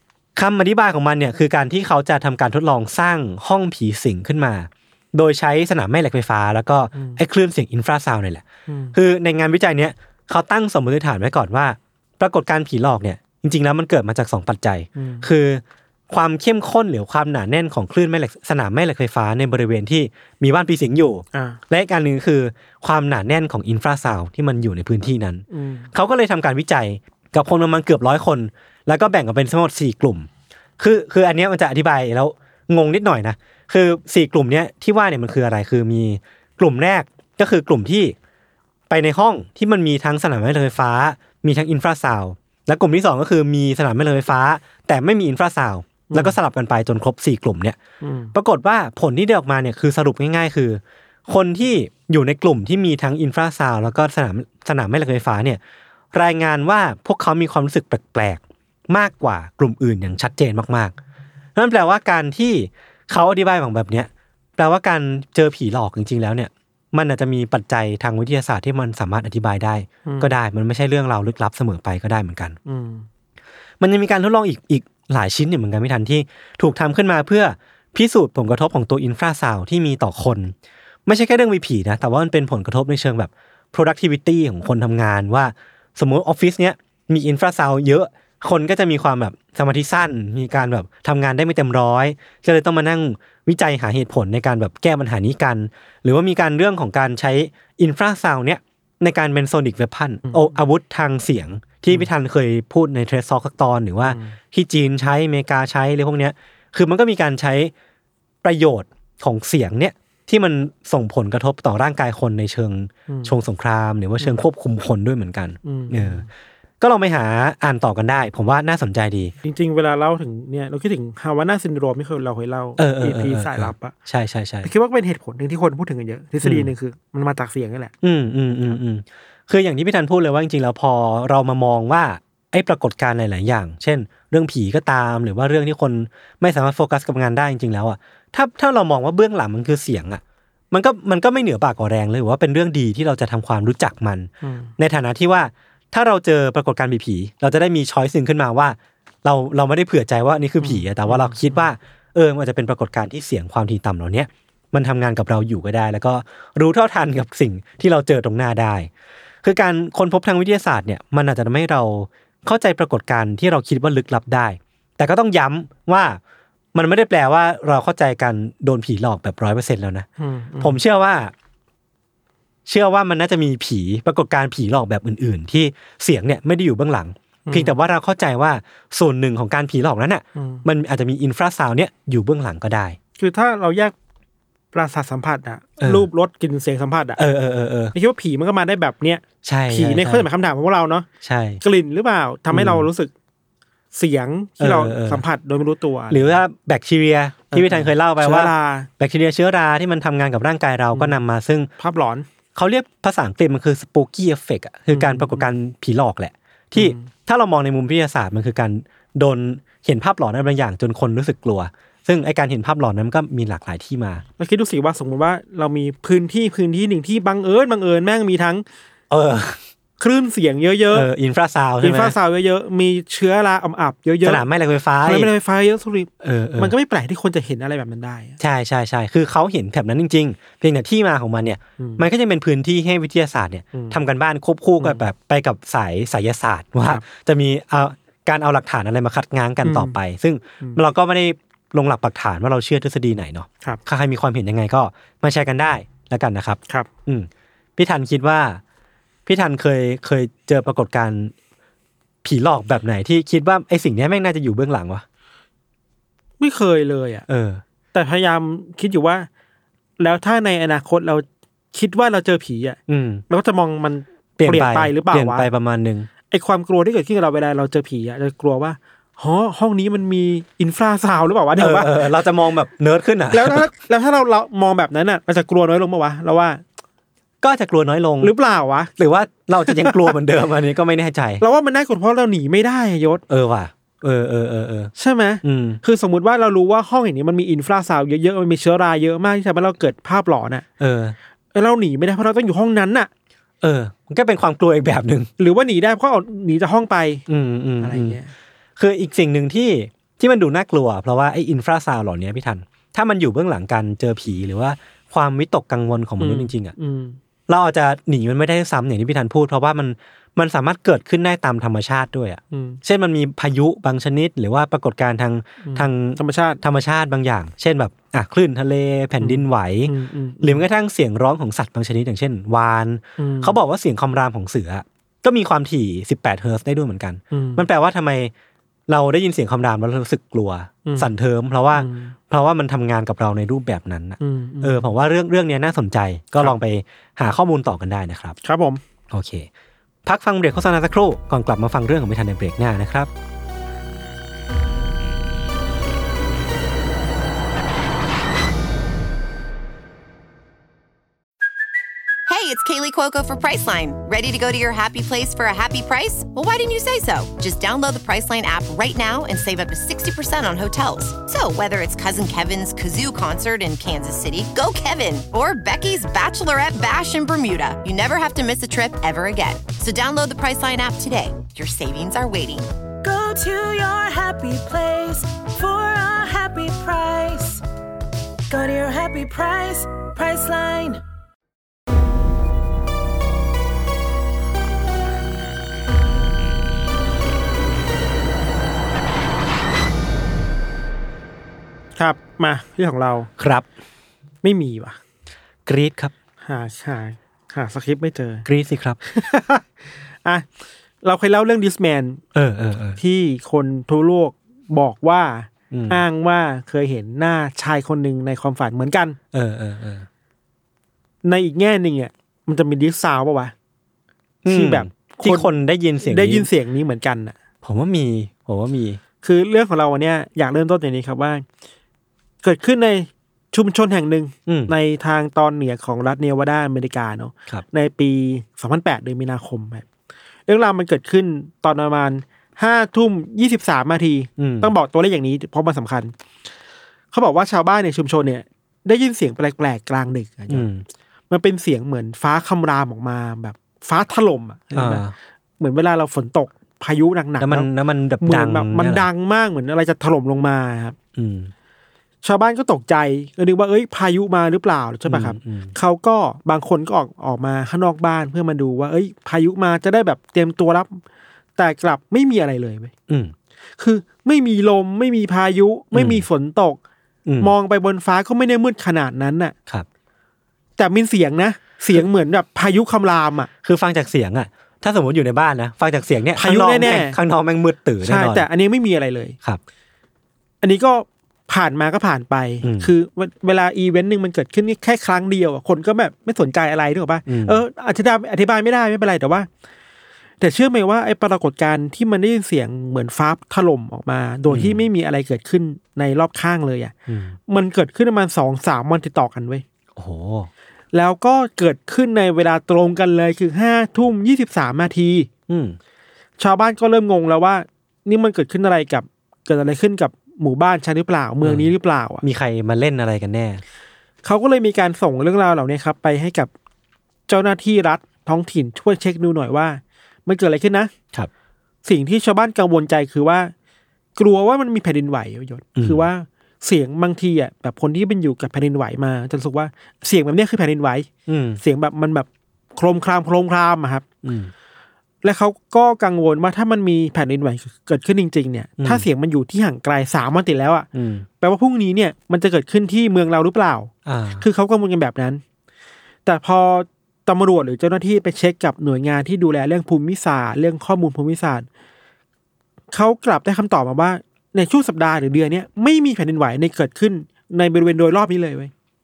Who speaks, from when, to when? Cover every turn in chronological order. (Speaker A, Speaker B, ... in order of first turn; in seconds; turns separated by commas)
Speaker A: 0.3-30.3, Speaker B: 6.9-7.2, Speaker B: 8.7-8.9, Speaker B: 14.9-15.3, Speaker B: 21.3-21.6, Speaker B: 25.5-25.9, Speaker A: 30.8-38.1, Speaker A: 38.9-47.8, Speaker B: 46.1-46.4, Speaker B: 48.0-48.3, Speaker A: 48.3-55.6, Speaker A: 56.1-61.0, Speaker A: 61.5-72.6, Speaker B: 70.0-70.3, Speaker B: 72.7-73.1, Speaker A: 73.8-80.5, Speaker A: 81.1-107.7, Speaker B: 104.0-104.3, Speaker A: 108.4-116.2, Speaker B: 113.1-113.3, Speaker B: 115.6-116.3, Speaker A: 116.8-119.3, Speaker B: 119.4-123.9, Speaker A: 122.8-124.7, Speaker B: 124.6-127.9, Speaker A: 126.4-126.7, Speaker A: 128.0-158.9, Speaker B: 144.4-144.7, Speaker B: 150.6-151.6, Speaker A: 159.4-166.2, Speaker A: 166.7-170.1, Speaker B: 170.2-170.8, Speaker A: 170.6-171.3, Speaker A: 172.7-183.0, Speaker B: 177.5-177.7, Speaker B: 180.3-180.6, Speaker B: 183.2-183.9, Speaker B: 184.7-187.2, Speaker A: 185.8-186.1, Speaker A: 187.2-187.9, Speaker B: 187.9-191.1, Speaker A: 189.4-190.3, Speaker A: 191.2-191.6, Speaker B: 191.6-193.1, Speaker A: 192.5-192.9, Speaker B: 193.9-196.4, Speaker A: 194.6-195.2, Speaker A: 196.1-201.7, Speaker B: 197.5-198.9, Speaker B: 200.9-201.2, Speaker B: 201.8-202.3, Speaker A: 202.5-214.2, Speaker B: 204.9-205.5, Speaker B: 206.7-207.1, Speaker B: 214.4-218.6, Speaker A: 219.1-219.6, Speaker B: 220.0-221.1, Speaker A: 220.9-222.2, Speaker B: 221.8-224.4, Speaker A: 224.2-225.3, Speaker B: 225.0-228.4, Speaker A: 226.2-226.7, Speaker A: 228.4-248.6, Speaker B: 234.8-235.0, Speaker B: 239.6-239.9, Speaker A: 249.2-251.3, Speaker A: 252.2-255.0, Speaker B: 256.4-257.2, Speaker A: 257.3-257.6, Speaker B: 257.9-259.3, Speaker B: 260.0-262.8, Speaker A: 262.9-263.2, Speaker B: 263.3-265.4, Speaker A: 264.4-266.1, Speaker B: 266.3-272.1, Speaker A: 271.6-273.6, Speaker B: 273.3-276.6, Speaker A: 277.4-278.3, Speaker B: 278.2-278.9, Speaker A: 279.0-281.4, Speaker B: 279.6-280.1, Speaker B: 281.4-283.2, Speaker A: 283.3-284.9, Speaker B: 285.0-290.6, Speaker A: 285.4-285.8, Speaker A: 290.8-291.1, Speaker B: 291.5-293.1, Speaker A: 293.6-295.3, Speaker B: 295.4-297.2, Speaker A: 297.3-298.2, Speaker B: 297.8-298.3, Speaker A: 298.8-306.7, Speaker B: 306.2-307.2, Speaker A: 307.5-328.3, Speaker B: 312.5-312.8, Speaker B: 315.6-316.6, Speaker B: 319.2-320.6, Speaker B: 323.2-323.6, Speaker B: 327.3-327.6, Speaker A: 328.9-338.4, Speaker B: 330.9-331.1, Speaker B: 331.7-332.1, Speaker B: 334.2-334.9, Speaker B: 338.4-338.8, Speaker A: 339.1-339.5, Speaker A: 340.0-343.1, Speaker C: 352.3-372.7, Speaker D: 373.0-377.6, Speaker D: 378.5-381.0, Speaker B: 392.0-393.3, Speaker A: 393.4-393.7, Speaker B: 394.4-395.0, Speaker A: 395.6-396.1, Speaker B: 396.4-398.4, Speaker A: 398.4-399.0, Speaker B: 399.0-399.6, Speaker B: 401.0-402.2, Speaker A: 402.4-403.0, Speaker B: 403.0-409.2, Speaker A: 405.7-406.0, Speaker A: 409.3-410.1, Speaker B: 411.2-413.5, Speaker A: 414.4-416.5, Speaker B: 414.5-415.5, Speaker B: 416.0-417.4, Speaker A: 417.6-419.0, Speaker B: 419.2-421.4, Speaker B: 422.4-429.9, Speaker A: 424.5-424.7, Speaker B: 430.5-436.1, Speaker A: 434.4-434.7, Speaker B: 437.1-440.7, Speaker A: 440.5-440.9, Speaker B: 441.3-445.1, Speaker A: 444.7-445.1, Speaker B: 445.6-447.7, Speaker A: 447.4-449.1, Speaker B: 448.2-450.9, Speaker A: 451.1-451.5, Speaker B: 452.2-461.0, Speaker A: 455.1-455.7, Speaker B: 461.6-462.9, Speaker A: 463.1-463.4, Speaker B: 463.8-466.8, Speaker A: 465.9-466.2, Speaker A: 467.2-467.5, Speaker B: 467.4-469.5, Speaker B: 470.8-473.5, Speaker A: 473.6-478.5, Speaker B: 476.4-477.2, Speaker B: 478.0-479.4, Speaker B: 480.6-489.5, Speaker A: 482.6-482.9, Speaker A: 487.3-487.6, Speaker B: 490.4-496.9, Speaker A: 494.5-494.9, Speaker A: 497.1-497.4, Speaker B: 497.5-499.6, Speaker A: 499.9-500.5, Speaker B: 500.9-505.3, Speaker A: 505.5-505.8, Speaker B: 506.4-512.2, Speaker A: 511.4-513.6, Speaker B: 514.2-516.5, Speaker B: 517.3-520.9, Speaker B: 521.9-523.5, Speaker B: 524.1-531.1, Speaker A: 525.8-526.1, Speaker A: 531.3-531.6, Speaker B: 531.6-534.0, Speaker A: 534.2-534.5, Speaker B: 535.2-540.9, Speaker A: 538.8-539.1, Speaker A: 540.9-541.3, Speaker B: 541.4-545.4, Speaker A: 544.1-544.4, Speaker B: 546.2-551.6, Speaker B: 552.9-558.7